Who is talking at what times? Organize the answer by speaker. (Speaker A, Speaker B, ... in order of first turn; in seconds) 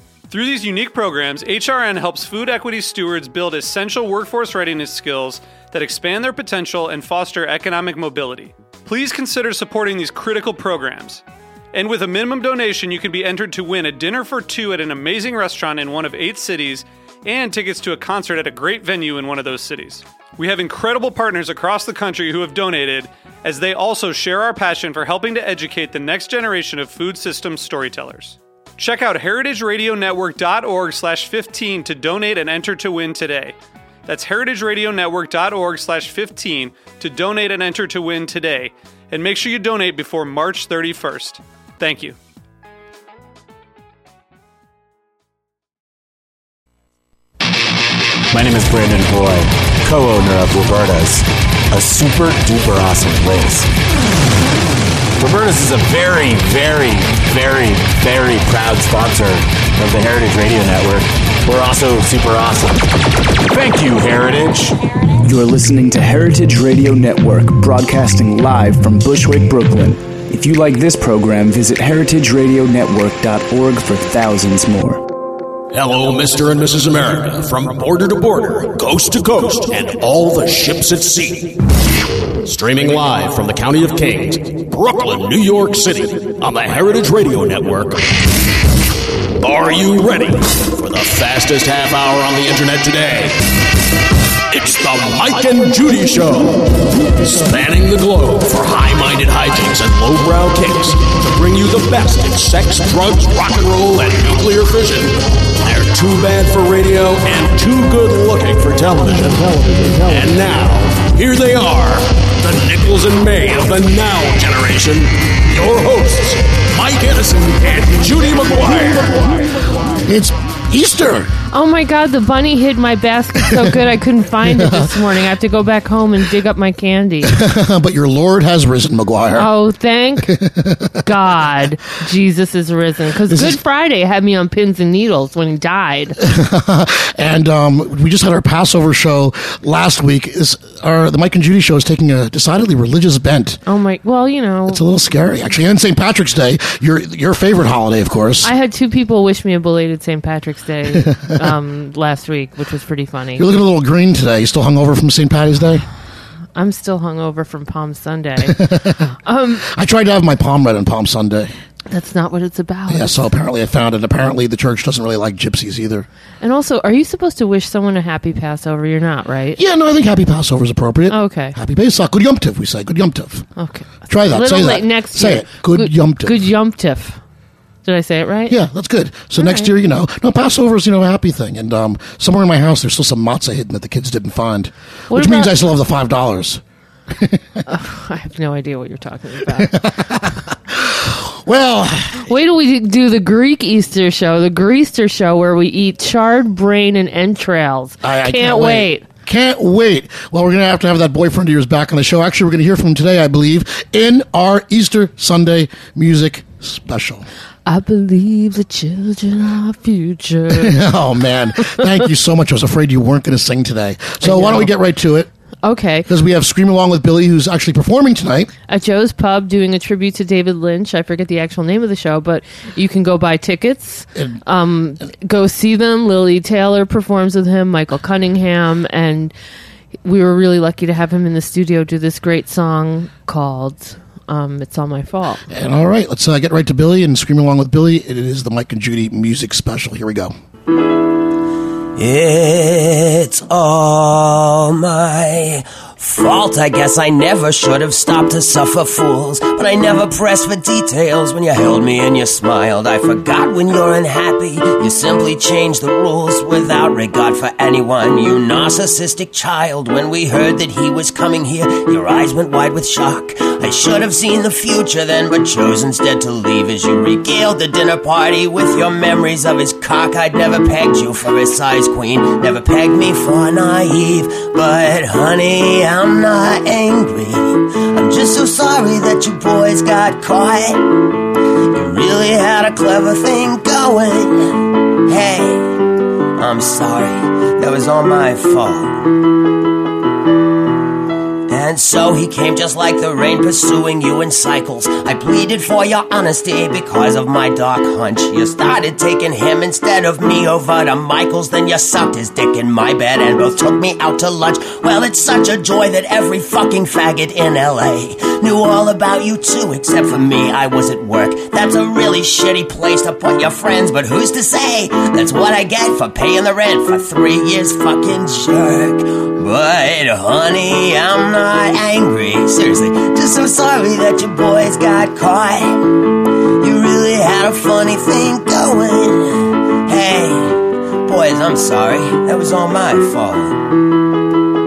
Speaker A: 0.3-42.2
Speaker B: 48.3-53.7, 55.2-62.9, 63.5-64.8
Speaker C: 65.2-75.0
Speaker D: 75.7-81.6, 82.4-88.1, 89.4-93.4, 94.5-119.7
Speaker E: 120.1-121.3, 124.4-125.0, 127.3-129.5, 130.2-131.1, 133.3-133.6, 136.2-143.6, 144.7-148.5, 150.9-151.3, 153.4-155.9, 158.4-159.1, 159.6-161.5, 162.9-166.1, 169.6-173.5, 174.1-176.5, 178.5-187.6, 189.5-192.3, 198.0-207.2, 210.5-215.3, 216.1-218.5, 224.2-224.4, 235.5-240.3
Speaker F: 121.5-127.4, 129.4-130.3, 131.0-136.2, 143.7-144.8, 148.4-153.4, 156.6-159.7, 161.9-163.3, 166.4-169.6, 171.1-171.6, 173.6-177.2, 177.8-178.6, 179.4-179.7, 185.1-185.5, 187.7-189.9, 192.2-199.1, 207.7-210.8, 214.2-214.7, 215.6-216.1, 218.7-229.3, 230.0-235.4
Speaker G: 242.0-281.0, 281.7-285.8, 286.4-289.0, 291.5-326.1, 326.6-333.6